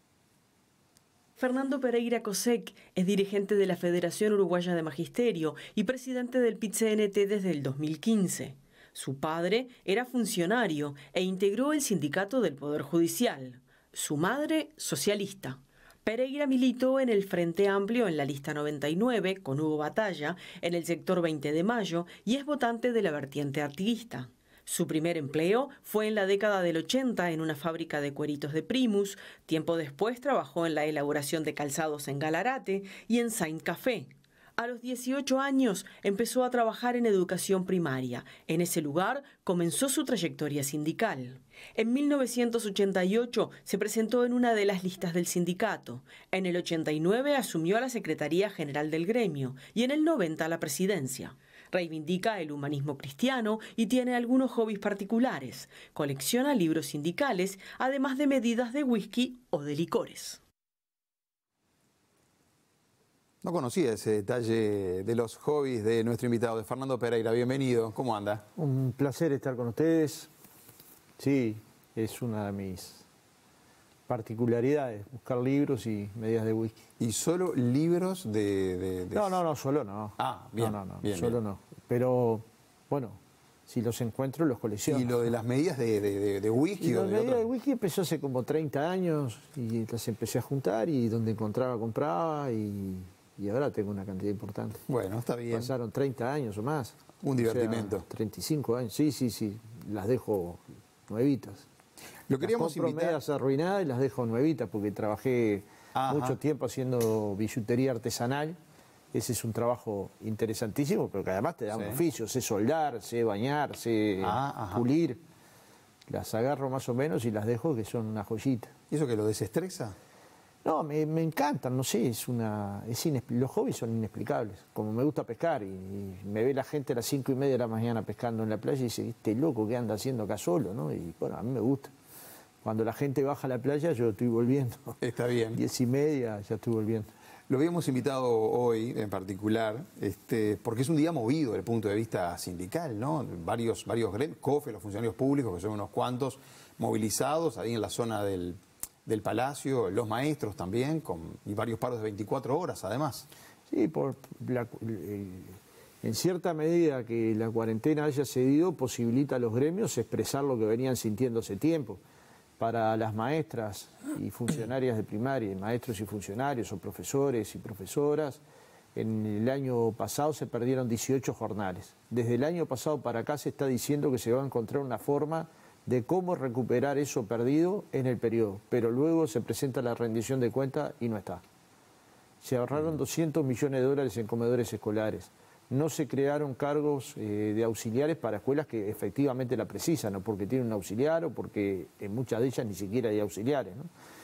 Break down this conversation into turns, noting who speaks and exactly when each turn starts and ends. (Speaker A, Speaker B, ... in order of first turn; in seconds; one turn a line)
Speaker A: 1.4-60.4
Speaker B: 63.4-68.4
Speaker C: 68.6-70.3
Speaker C: 71.2-73.0
Speaker C: 74.1-76.8
Speaker B: 77.0-79.4
Speaker C: 79.1-85.2
Speaker B: 80.2-81.4
Speaker B: 84.9-87.5
Speaker C: 86.8-94.8
Speaker B: 94.9-95.7
Speaker C: 95.5-101.7
Speaker B: 97.2-98.0
Speaker B: 102.3-103.2
Speaker C: 102.4-108.6
Speaker B: 105.9-106.4
Speaker C: 109.1-115.2
Speaker B: 111.7-112.0
Speaker B: 114.2-114.8
Speaker C: 116.1-118.7
Speaker B: 118.9-120.0
Speaker C: 120.6-131.9
Speaker C: 132.6-135.0
Speaker B: 135.0-135.6
Speaker C: 135.6-137.1
Speaker B: 137.5-153.3
Speaker C: 153.7-162.0
Speaker C: 162.6-168.4
Speaker C: 168.9-181.4
Speaker C: 182.4-193.9